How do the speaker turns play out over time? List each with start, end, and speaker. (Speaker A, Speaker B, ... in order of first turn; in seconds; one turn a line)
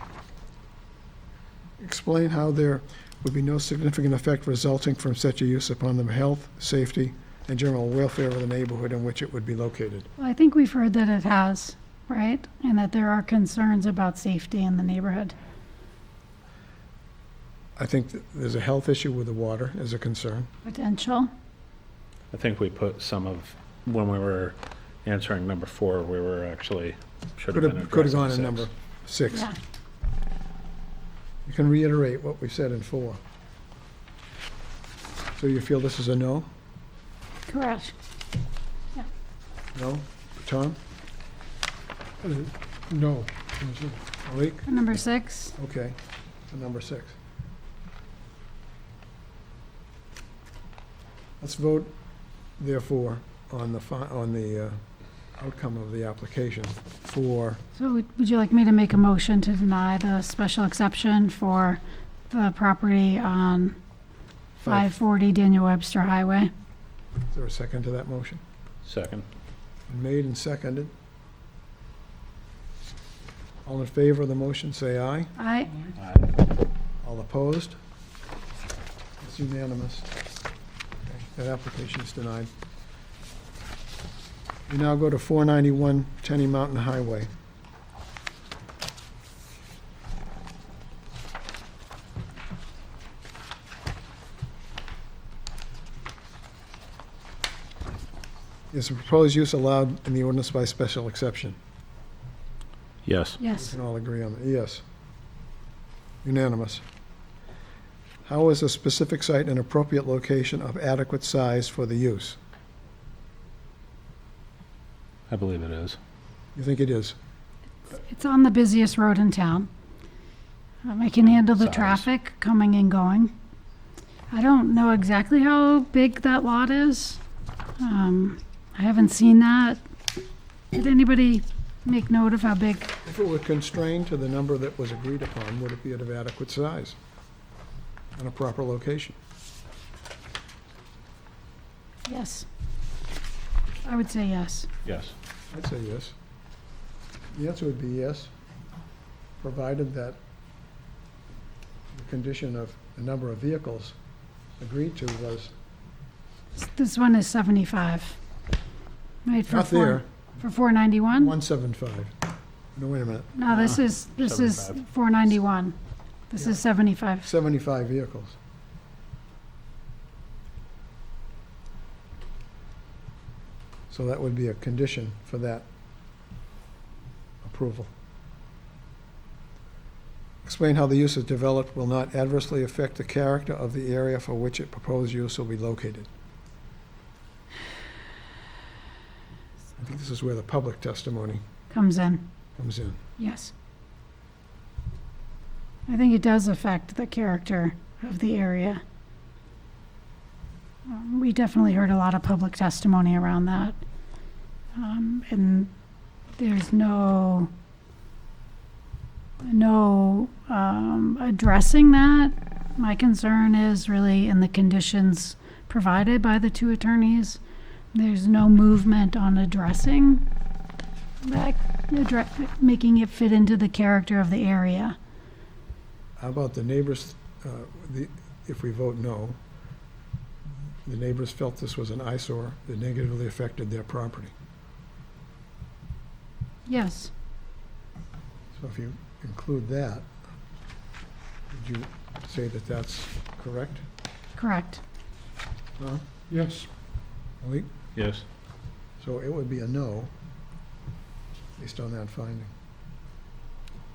Speaker A: 1.8-10.1
Speaker B: 10.2-15.3
Speaker A: 17.8-20.5
Speaker B: 20.6-21.3
Speaker C: 22.3-28.7
Speaker A: 27.5-29.5
Speaker A: 31.4-33.2
Speaker A: 35.4-36.5
Speaker B: 37.5-37.9
Speaker A: 39.8-40.8
Speaker D: 42.2-44.0
Speaker A: 44.2-44.7
Speaker B: 44.6-45.5
Speaker A: 45.6-46.0
Speaker A: 46.5-47.2
Speaker A: 51.4-51.9
Speaker A: 52.6-54.8
Speaker A: 55.4-57.6
Speaker B: 57.8-63.8
Speaker B: 64.6-66.5
Speaker A: 64.6-64.9
Speaker A: 67.3-68.4
Speaker C: 68.8-69.3
Speaker A: 69.9-70.9
Speaker A: 73.7-75.3
Speaker B: 75.4-75.9
Speaker C: 76.0-76.3
Speaker A: 77.0-77.8
Speaker A: 79.2-80.1
Speaker A: 81.1-82.5
Speaker A: 84.7-87.3
Speaker A: 98.7-101.6
Speaker C: 103.0-103.4
Speaker B: 103.4-103.7
Speaker A: 103.6-104.8
Speaker A: 106.2-106.8
Speaker A: 108.2-112.4
Speaker C: 115.3-116.0
Speaker A: 116.5-117.2
Speaker B: 117.9-119.7
Speaker B: 120.8-123.3
Speaker C: 121.3-122.1
Speaker B: 124.3-127.2
Speaker B: 127.8-129.8
Speaker B: 130.7-132.9
Speaker A: 133.1-137.0
Speaker A: 138.2-139.2
Speaker B: 142.1-142.5
Speaker B: 143.8-144.7
Speaker C: 144.8-145.1
Speaker A: 145.5-146.2
Speaker A: 147.3-148.3
Speaker A: 149.4-150.2
Speaker A: 151.9-154.0
Speaker A: 154.6-155.5
Speaker B: 156.6-158.2
Speaker B: 159.3-161.3
Speaker A: 159.5-160.1
Speaker A: 161.2-162.1
Speaker A: 162.8-163.5
Speaker B: 163.4-165.8
Speaker C: 164.2-164.7
Speaker B: 166.3-167.3
Speaker A: 167.2-168.4
Speaker A: 173.9-175.7
Speaker A: 177.4-177.9
Speaker A: 180.4-186.1
Speaker A: 189.8-191.4
Speaker B: 191.7-192.3
Speaker A: 192.6-193.0
Speaker B: 193.2-193.5
Speaker B: 195.9-198.8
Speaker B: 200.9-203.8
Speaker B: 204.8-205.7
Speaker B: 206.4-207.5
Speaker B: 209.4-217.4
Speaker B: 217.9-220.2
Speaker B: 221.2-225.0
Speaker A: 226.2-229.4
Speaker A: 230.8-234.3
Speaker B: 236.7-237.1
Speaker A: 238.6-240.1
Speaker A: 241.5-243.8
Speaker B: 244.4-244.8
Speaker A: 245.8-246.0
Speaker D: 246.3-246.7
Speaker A: 247.4-247.7
Speaker C: 248.0-248.2
Speaker A: 249.0-250.1
Speaker A: 251.6-252.5